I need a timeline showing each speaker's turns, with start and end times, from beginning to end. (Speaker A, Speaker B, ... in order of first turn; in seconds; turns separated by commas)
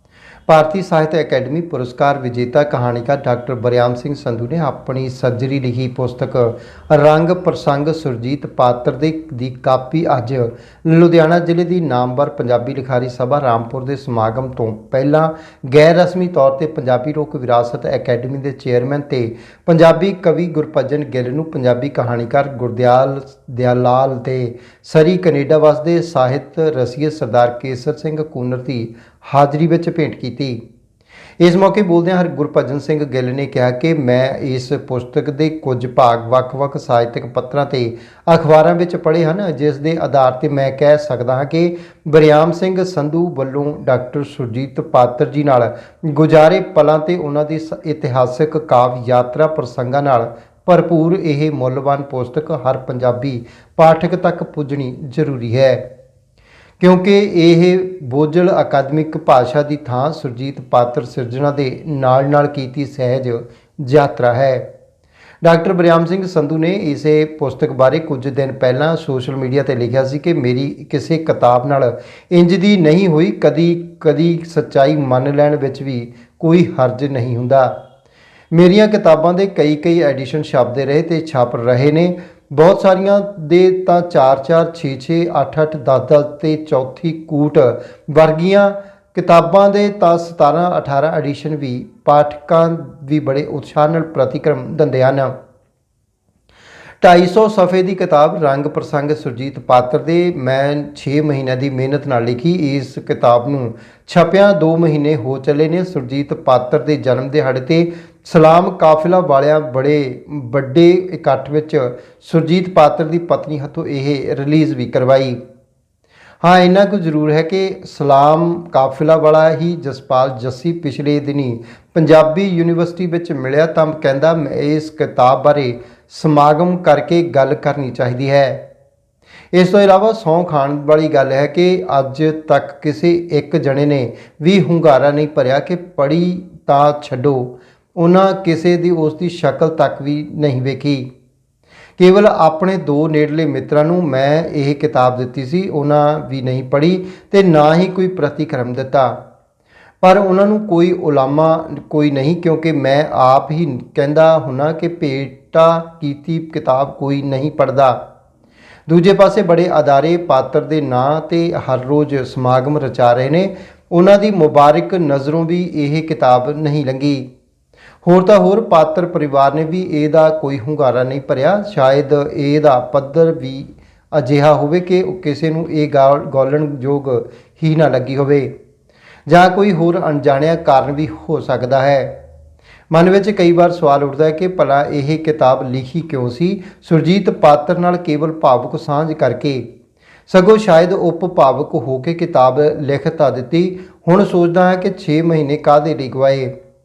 Speaker A: 0.5-30.6, Speaker A: 31.4-55.8, Speaker A: 56.8-64.7, Speaker A: 65.4-77.7, Speaker A: 78.5-95.3, Speaker A: 97.0-115.4, Speaker A: 116.4-128.6, Speaker A: 129.5-141.1, Speaker A: 142.0-149.2, Speaker A: 150.0-158.0, Speaker A: 158.9-167.3, Speaker A: 168.0-178.5, Speaker A: 179.3-182.1, Speaker A: 182.9-189.6, Speaker A: 190.3-196.5